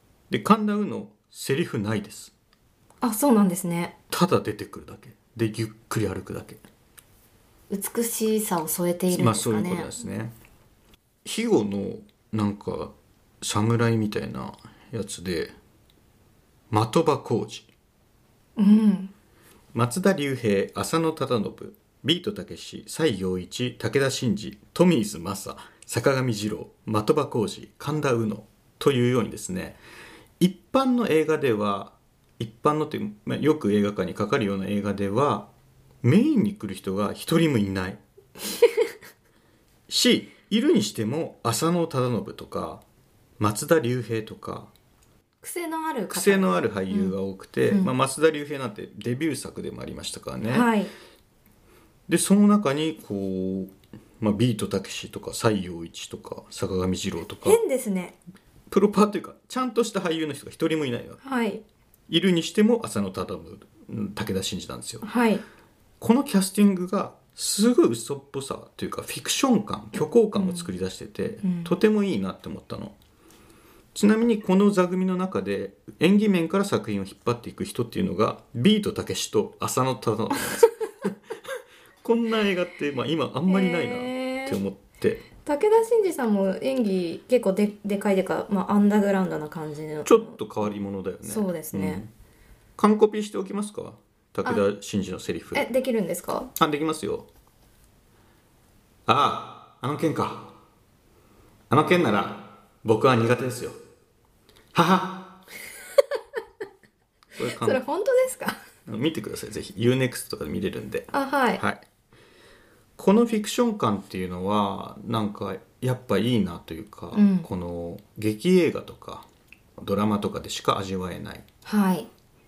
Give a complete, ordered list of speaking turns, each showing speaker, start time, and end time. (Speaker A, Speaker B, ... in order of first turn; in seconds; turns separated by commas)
Speaker A: 0.3-2.3, Speaker B: 3.0-3.9, Speaker A: 4.1-6.6, Speaker B: 7.7-9.9, Speaker A: 9.1-10.3, Speaker A: 11.2-15.5, Speaker A: 16.7-17.7, Speaker B: 18.6-19.1, Speaker A: 19.7-29.8, Speaker A: 30.4-35.5, Speaker A: 36.0-38.0, Speaker A: 39.9-42.8, Speaker A: 43.4-44.7, Speaker B: 45.4-47.2, Speaker A: 46.1-50.7, Speaker B: 50.4-50.9, Speaker A: 52.1-57.6, Speaker B: 57.4-58.2, Speaker A: 58.7-61.2, Speaker B: 61.2-61.6, Speaker A: 62.1-65.0, Speaker B: 65.0-65.4, Speaker A: 66.0-72.9, Speaker B: 70.4-70.7, Speaker B: 71.4-71.7, Speaker A: 73.9-81.1, Speaker A: 82.0-85.2, Speaker B: 83.5-84.6, Speaker B: 85.4-90.4, Speaker A: 90.0-92.1, Speaker B: 91.2-92.0, Speaker A: 92.8-95.7, Speaker B: 95.5-96.5, Speaker A: 96.5-97.3, Speaker A: 99.1-100.5, Speaker A: 101.7-103.8, Speaker A: 104.7-105.4, Speaker A: 107.4-107.8, Speaker B: 107.5-108.6, Speaker A: 108.9-111.8, Speaker B: 111.1-111.6, Speaker A: 113.0-119.2, Speaker B: 117.1-117.5, Speaker A: 119.8-121.5, Speaker B: 121.7-122.1